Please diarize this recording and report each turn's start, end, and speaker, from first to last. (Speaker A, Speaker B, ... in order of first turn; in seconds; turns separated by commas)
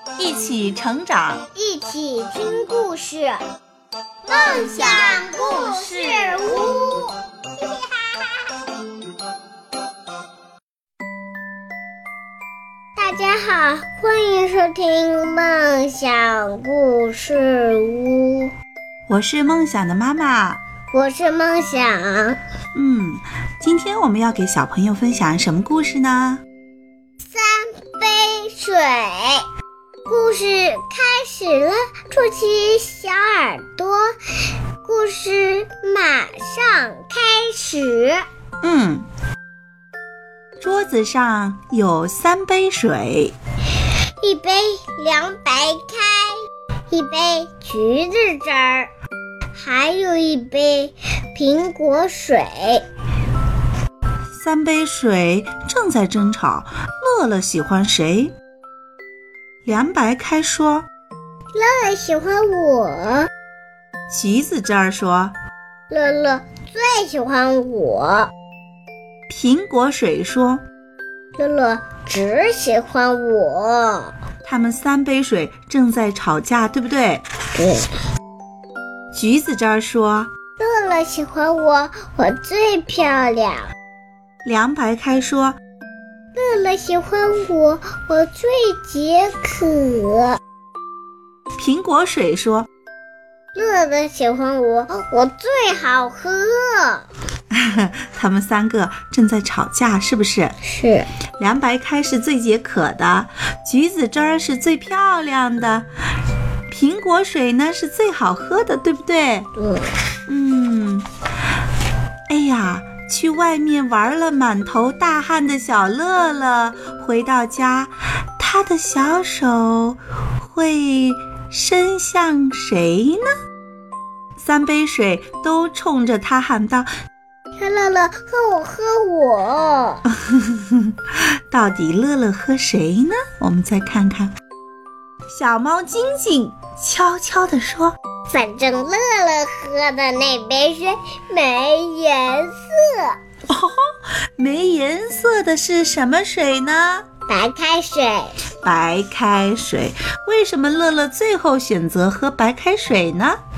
Speaker A: 0.2-1.4, Speaker B: 1.5-3.4, Speaker A: 4.2-6.6, Speaker B: 4.3-8.4, Speaker B: 12.9-18.5, Speaker A: 19.1-20.6, Speaker B: 20.9-22.4, Speaker A: 22.7-26.4, Speaker B: 27.3-29.4, Speaker B: 30.1-34.1, Speaker B: 34.8-38.2, Speaker A: 38.6-39.1, Speaker A: 40.6-43.3, Speaker B: 44.2-46.4, Speaker B: 46.9-48.9, Speaker B: 49.5-52.8, Speaker A: 54.3-58.3, Speaker A: 59.6-60.9, Speaker B: 61.5-63.3, Speaker A: 64.1-65.3, Speaker B: 65.9-68.3, Speaker A: 69.3-70.6, Speaker B: 71.4-74.1, Speaker A: 74.4-77.2, Speaker B: 77.5-77.9, Speaker A: 79.1-80.3, Speaker B: 80.6-83.7, Speaker A: 84.4-85.6, Speaker B: 86.3-90.4, Speaker A: 91.6-92.7, Speaker B: 93.5-97.1, Speaker A: 97.5-100.5, Speaker B: 100.6-101.1, Speaker A: 101.4-105.9, Speaker A: 106.7-109.5, Speaker B: 109.6-109.9, Speaker A: 110.3-111.1, Speaker A: 112.3-123.3, Speaker A: 124.4-126.9, Speaker B: 127.6-130.0, Speaker A: 130.2-134.3, Speaker A: 135.3-137.9, Speaker B: 138.3-143.2, Speaker A: 143.5-143.8, Speaker A: 144.4-147.1, Speaker B: 147.3-148.4, Speaker A: 148.6-153.4